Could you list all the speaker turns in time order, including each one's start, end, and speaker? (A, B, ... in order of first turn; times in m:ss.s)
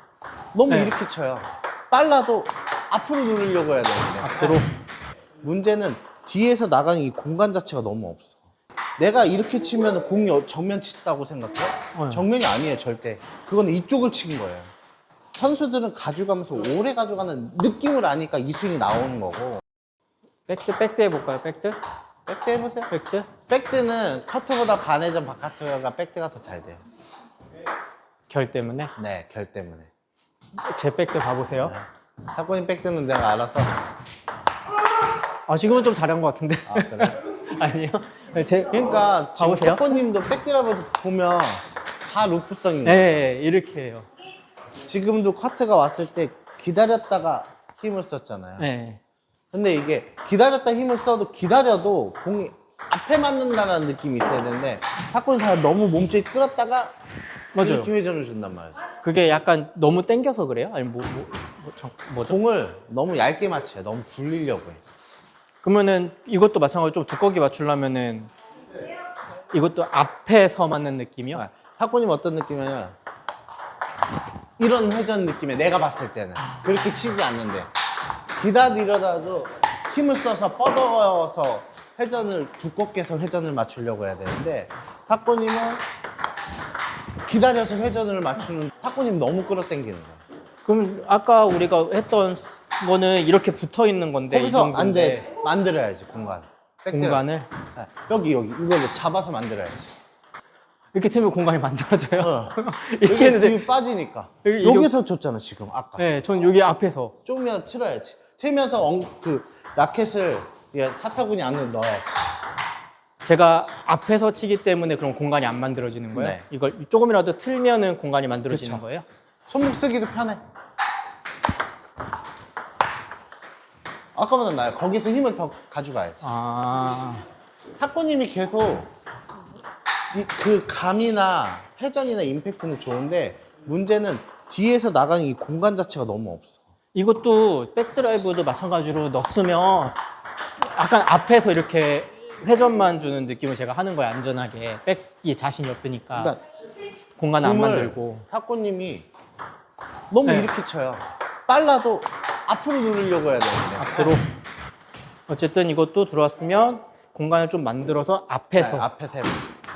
0:00.5-0:04.6 A
0:00.7-0:01.0 B
0:04.2-0:04.7 B
0:05.4-0:08.4 A
0:09.0-0:14.7 A
0:12.0-0:12.2 B
0:15.3-0:19.6 A
0:20.5-0:21.8 B
0:22.3-0:22.9 A
0:22.9-0:23.3 B
0:23.5-0:26.8 A
0:28.3-0:28.9 B
0:29.0-0:29.9 A
0:30.6-0:31.8 B
0:31.6-0:33.8 A
0:35.5-0:40.0 B
0:36.7-0:37.2 A
0:38.7-0:43.2 A
0:42.8-0:44.1 B
0:44.8-0:48.7 A
0:48.6-0:49.0 B
0:49.5-0:56.9 A
0:57.6-0:57.9 B
0:57.6-0:58.8 A
0:59.0-1:02.4 B
1:02.3-1:04.8 A
1:05.6-1:08.3 B
1:09.5-1:11.4 B
1:11.3-1:13.0 A
1:14.6-1:17.7 A
1:18.4-1:25.8 A
1:27.2-1:30.2 A
1:30.6-1:35.3 B
1:34.3-1:39.9 A
1:36.9-1:37.5 B
1:40.9-1:43.7 B
1:42.2-1:46.0 A
1:44.4-1:44.9 B
1:46.0-1:47.2 B
1:47.2-1:52.3 A
1:53.2-1:59.0 B
1:56.1-1:56.4 A
1:58.5-1:58.8 A
1:59.5-2:00.4 A
2:04.2-2:06.3 A
2:06.2-2:07.2 B
2:07.8-2:08.9 A
2:10.1-2:16.6 A
2:16.9-2:20.0 B
2:20.7-2:26.3 B
2:27.2-2:28.3 B
2:27.4-2:29.1 A
2:30.1-2:34.2 A
2:30.3-2:30.5 B
2:33.8-2:34.3 B
2:35.3-2:38.9 B
2:38.6-2:39.5 A